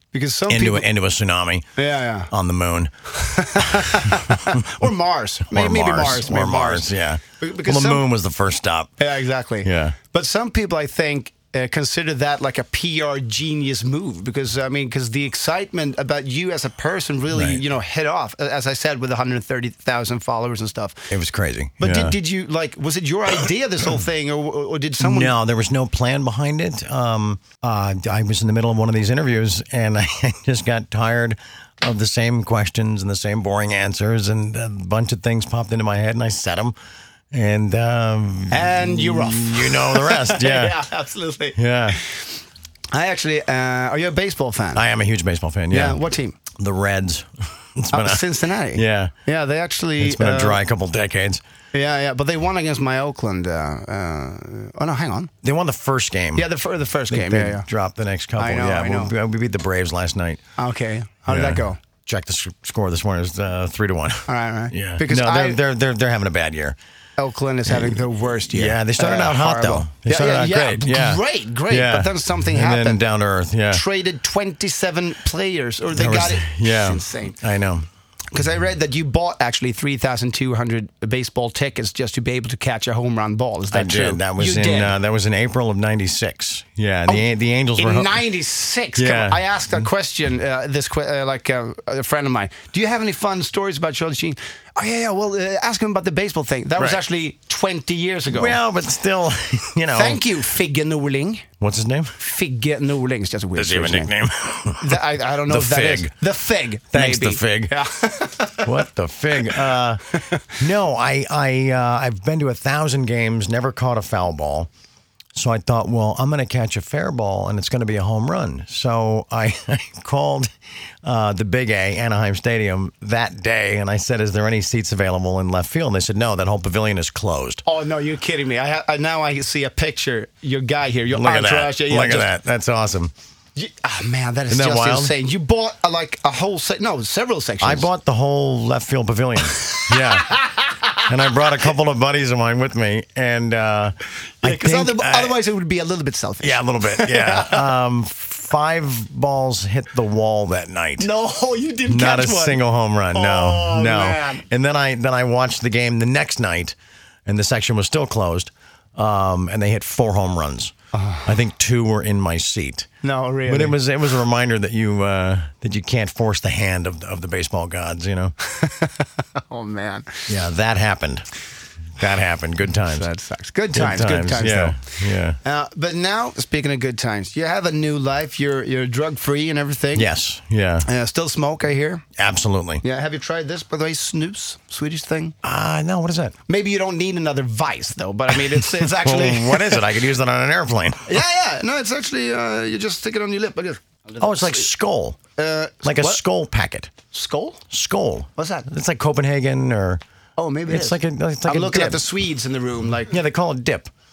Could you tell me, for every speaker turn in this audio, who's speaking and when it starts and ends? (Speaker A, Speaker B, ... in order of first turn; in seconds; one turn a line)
Speaker A: 0.1-0.9
Speaker B: 0.5-1.7
Speaker A: 1.8-2.3
Speaker B: 2.3-2.9
Speaker A: 3.1-8.1
Speaker B: 3.6-3.9
Speaker B: 5.5-9.0
Speaker A: 9.0-21.1
Speaker B: 9.6-10.0
Speaker B: 17.3-17.6
Speaker B: 21.1-22.2
Speaker A: 21.8-25.4
Speaker B: 25.0-36.8
Speaker B: 37.3-40.8
Speaker A: 38.5-42.3
Speaker B: 41.5-42.0
Speaker A: 42.9-44.8
Speaker B: 44.7-46.0
Speaker A: 45.7-46.4
Speaker B: 46.5-49.1
Speaker A: 47.9-50.6
Speaker B: 50.0-51.4
Speaker A: 51.7-55.3
Speaker B: 55.4-56.5
Speaker A: 56.4-57.7
Speaker B: 57.1-60.4
Speaker A: 58.4-59.1
Speaker A: 60.6-61.8
Speaker B: 61.3-66.8
Speaker A: 64.3-65.6
Speaker A: 67.2-73.0
Speaker B: 67.7-68.0
Speaker B: 68.5-73.8
Speaker A: 73.7-77.4
Speaker B: 75.9-77.9
Speaker A: 78.3-85.0
Speaker B: 83.7-88.2
Speaker A: 87.8-98.6
Speaker B: 89.0-89.4
Speaker B: 96.8-97.0
Speaker B: 98.3-100.3
Speaker A: 99.9-101.5
Speaker B: 101.6-102.2
Speaker A: 102.2-104.2
Speaker B: 103.6-106.1
Speaker A: 104.8-108.7
Speaker B: 106.9-107.8
Speaker B: 108.6-114.7
Speaker B: 115.3-120.5
Speaker B: 121.0-127.6
Speaker A: 127.7-132.3
Speaker B: 131.1-133.1
Speaker A: 133.6-137.9
Speaker B: 134.5-135.1
Speaker B: 137.6-140.4
Speaker B: 141.0-145.4
Speaker A: 144.4-147.7
Speaker B: 146.4-151.1
Speaker A: 151.0-152.6
Speaker B: 151.9-160.7
Speaker A: 153.1-154.4
Speaker A: 160.9-161.3
Speaker B: 161.2-162.9
Speaker A: 163.0-163.8
Speaker B: 163.4-168.3
Speaker A: 168.4-170.3
Speaker B: 170.3-171.3
Speaker B: 172.0-173.1
Speaker A: 172.9-180.1
Speaker B: 173.7-175.4
Speaker B: 179.9-180.9
Speaker A: 180.8-182.0
Speaker B: 182.2-182.8
Speaker A: 182.8-185.3
Speaker B: 185.4-186.3
Speaker A: 186.5-189.9
Speaker B: 188.6-191.2
Speaker A: 191.1-194.7
Speaker B: 194.2-195.2
Speaker A: 195.4-196.2
Speaker B: 195.8-196.9
Speaker A: 197.1-197.6
Speaker B: 197.7-200.0
Speaker A: 198.4-198.7
Speaker A: 200.4-203.2
Speaker B: 200.7-202.1
Speaker B: 203.1-203.9